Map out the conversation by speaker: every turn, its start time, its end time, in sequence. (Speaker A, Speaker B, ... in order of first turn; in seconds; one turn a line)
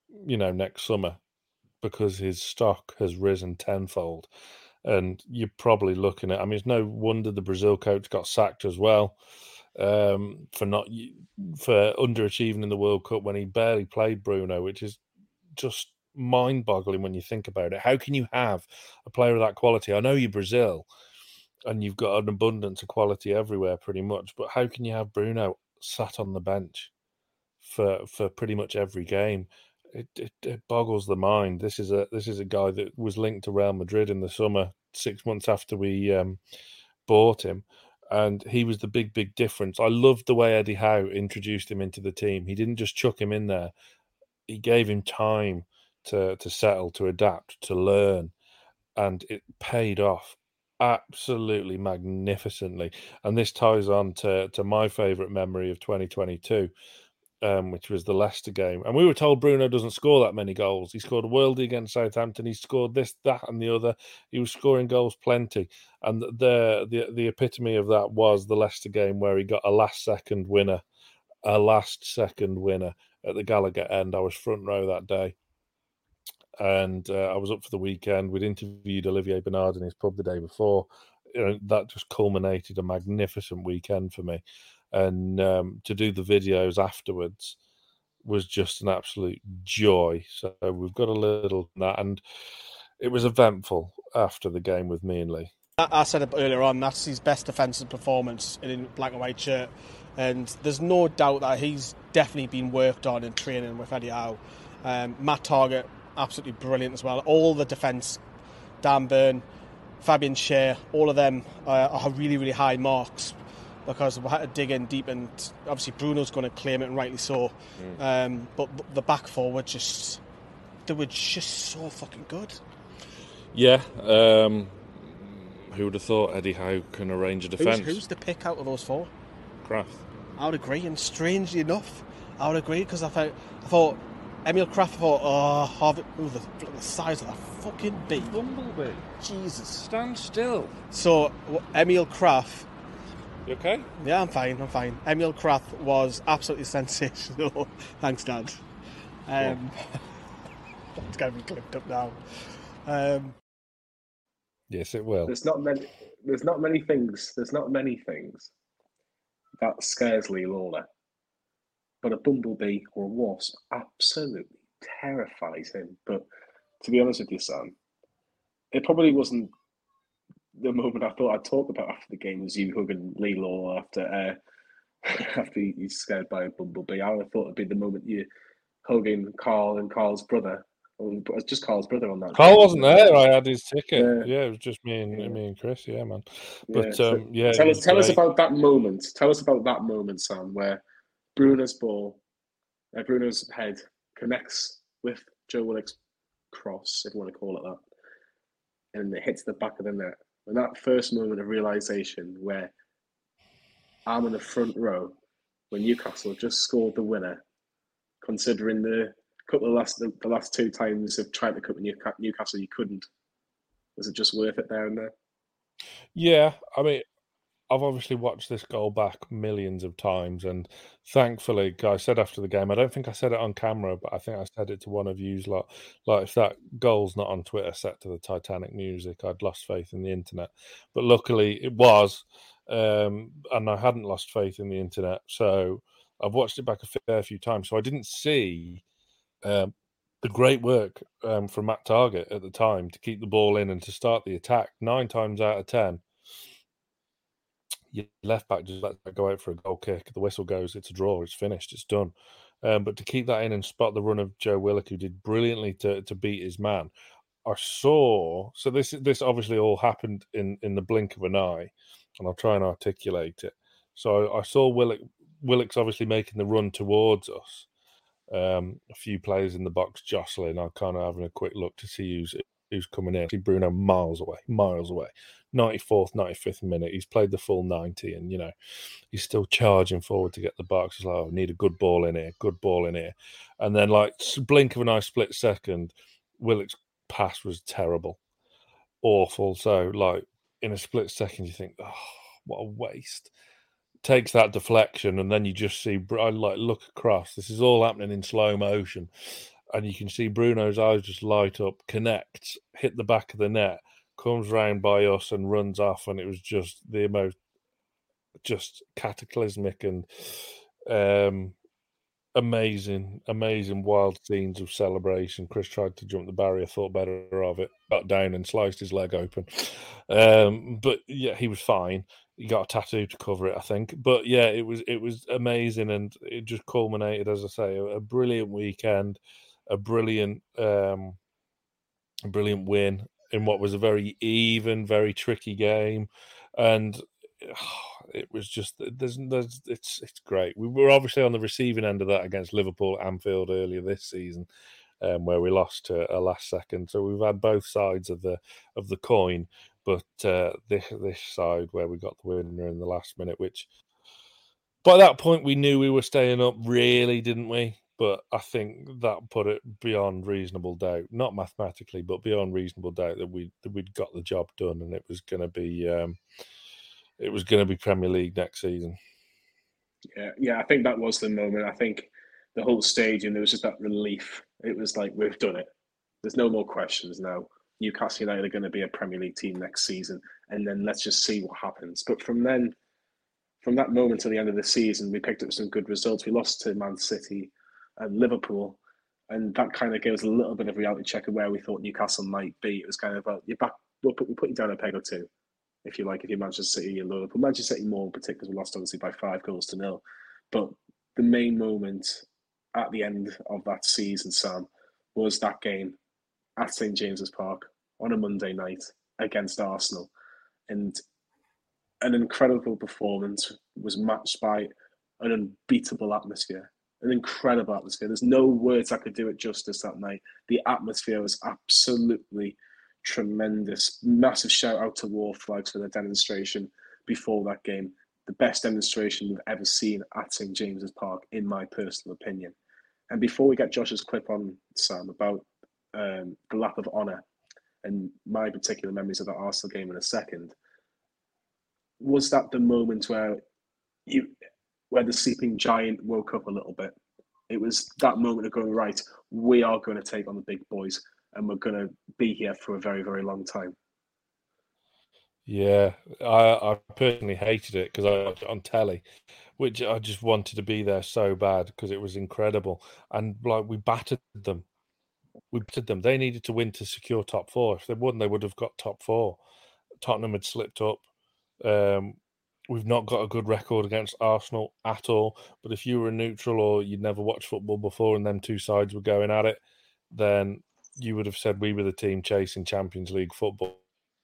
Speaker A: 0.2-1.2
Speaker A: 1.8-4.3
Speaker A: 4.8-9.2
Speaker A: 9.8-15.0
Speaker A: 15.6-20.9
Speaker A: 21.7-26.9
Speaker A: 27.6-36.4
Speaker A: 37.1-43.7
Speaker A: 44.5-48.3
Speaker A: 49.0-56.7
Speaker A: 57.4-70.8
Speaker A: 71.4-75.3
Speaker A: 76.6-84.4
Speaker A: 84.9-87.6
Speaker A: 88.2-92.2
Speaker A: 93.0-95.5
Speaker B: 95.8-108.2
Speaker B: 108.8-109.4
Speaker B: 110.0-120.2
Speaker B: 120.9-122.6
Speaker A: 123.5-128.0
Speaker B: 127.6-129.1
Speaker A: 129.6-130.0
Speaker B: 130.4-138.3
Speaker A: 138.2-139.1
Speaker B: 139.2-139.7
Speaker A: 139.7-140.8
Speaker B: 140.9-142.7
Speaker A: 143.5-143.9
Speaker B: 144.0-148.6
Speaker B: 149.3-149.8
Speaker B: 151.0-152.2
Speaker B: 152.8-153.3
Speaker A: 154.7-155.3
Speaker C: 155.3-158.5
Speaker C: 159.6-160.9
Speaker C: 162.0-166.3
Speaker C: 166.8-167.7
Speaker C: 168.7-169.5
Speaker C: 170.6-174.4
Speaker C: 175.0-178.3
Speaker C: 178.8-183.2
Speaker A: 182.3-188.2
Speaker C: 183.9-184.3
Speaker C: 186.7-190.8
Speaker C: 191.4-192.2
Speaker C: 192.9-195.9
Speaker C: 196.5-197.8
Speaker C: 198.9-202.7
Speaker C: 204.1-205.1
Speaker C: 205.7-207.4
Speaker C: 208.2-213.1
Speaker C: 214.0-215.1
Speaker A: 216.2-217.1
Speaker A: 217.7-238.8
Speaker A: 239.4-246.0
Speaker A: 247.9-256.9
Speaker A: 257.5-267.7
Speaker A: 268.3-278.5
Speaker A: 279.1-288.2
Speaker A: 289.0-293.3
Speaker A: 294.0-299.1
Speaker A: 299.7-307.4
Speaker A: 308.4-311.6
Speaker A: 312.4-331.2
Speaker A: 332.3-344.5
Speaker A: 345.0-353.7
Speaker A: 354.8-366.2
Speaker A: 367.2-369.0
Speaker C: 370.1-375.7
Speaker C: 376.2-382.8
Speaker C: 383.6-395.3
Speaker C: 395.9-402.2
Speaker C: 402.7-406.0
Speaker C: 406.6-410.1
Speaker C: 410.7-411.0
Speaker C: 412.0-432.6
Speaker C: 433.1-437.2
Speaker C: 437.8-440.5
Speaker C: 442.0-443.4
Speaker C: 444.1-444.3
Speaker C: 444.9-446.9
Speaker C: 447.5-453.8
Speaker A: 455.5-459.0
Speaker A: 459.6-464.6
Speaker A: 465.5-469.4
Speaker A: 470.0-471.0
Speaker A: 471.6-472.2
Speaker A: 472.7-479.6
Speaker A: 480.1-483.8